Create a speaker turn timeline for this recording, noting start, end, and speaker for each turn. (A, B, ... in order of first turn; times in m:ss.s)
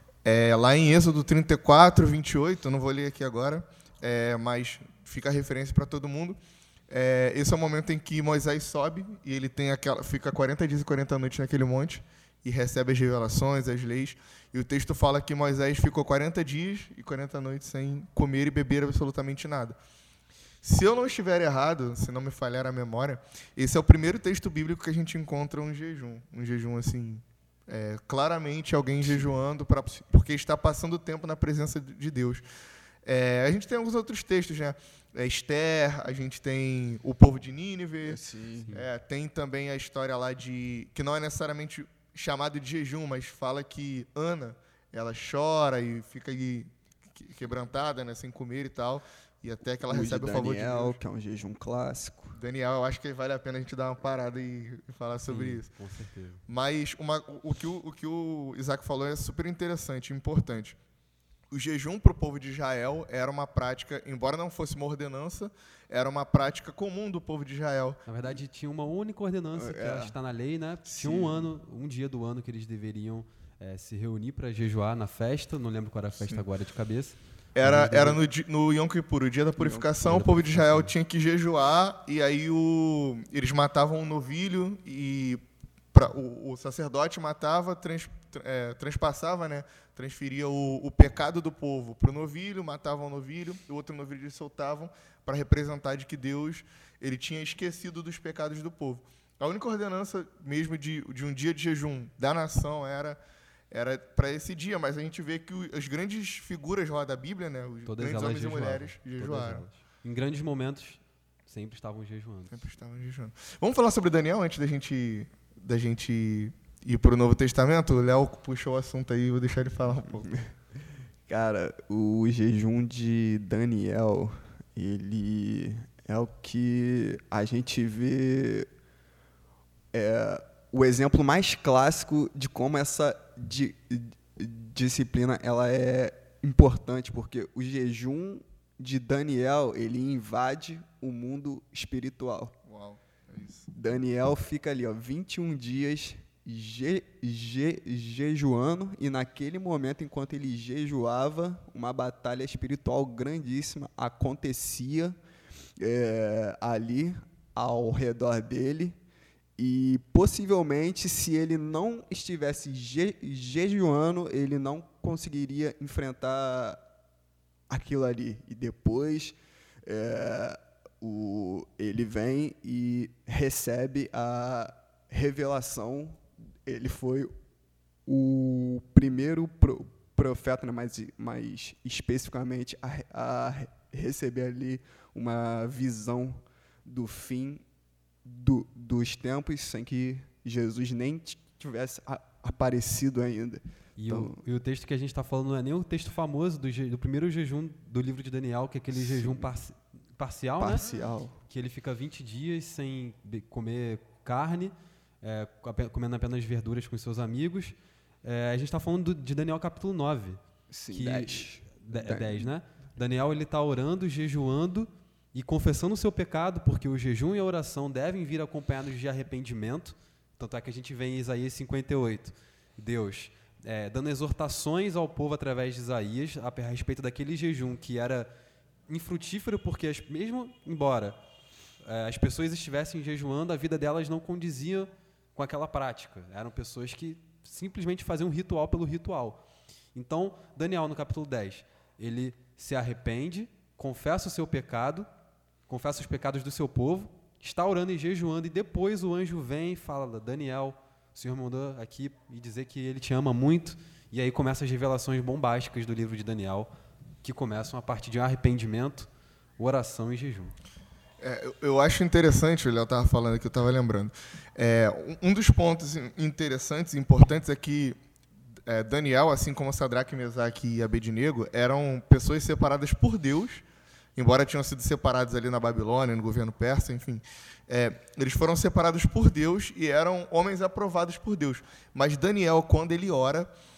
0:00.2-0:06.4 A
0:06.9-0:19.8 A
0:20.6-0:32.4 A
0:33.0-0:38.2 A
0:38.0-0:38.7 B
0:38.7-0:51.0 A
0:49.8-0:52.4 B
0:52.3-0:55.7 A
0:55.3-0:56.4 C
0:56.5-1:00.8 A
1:01.5-1:08.0 A
1:08.0-1:18.2 C
1:09.5-1:10.2 B
1:10.8-1:11.5 B
1:17.6-1:25.4 A
1:19.6-1:19.9 B
1:20.0-1:20.9 C
1:25.9-1:43.2 A
1:43.7-1:49.6 A
1:47.8-1:52.6 C
1:52.5-2:00.4 A
2:01.3-2:08.7 B
2:09.9-2:22.5 B
2:22.7-2:23.7 A
2:23.7-2:35.2 B
2:35.8-2:39.0 B
2:39.6-2:46.8 B
2:47.7-2:57.3 B
2:58.0-3:07.6 B
3:08.2-3:14.4 B
3:14.0-3:20.9 C
3:19.0-3:19.4 B
3:20.6-3:21.4 B
3:21.5-3:48.3 C
3:30.7-3:32.5 B
3:48.9-3:51.2 C
3:51.8-3:59.4 C
3:59.9-4:05.1 C
4:05.7-4:16.7 C
4:17.2-4:20.5 C
4:21.2-4:28.0 A
4:28.7-4:33.6 A
4:34.2-4:43.5 A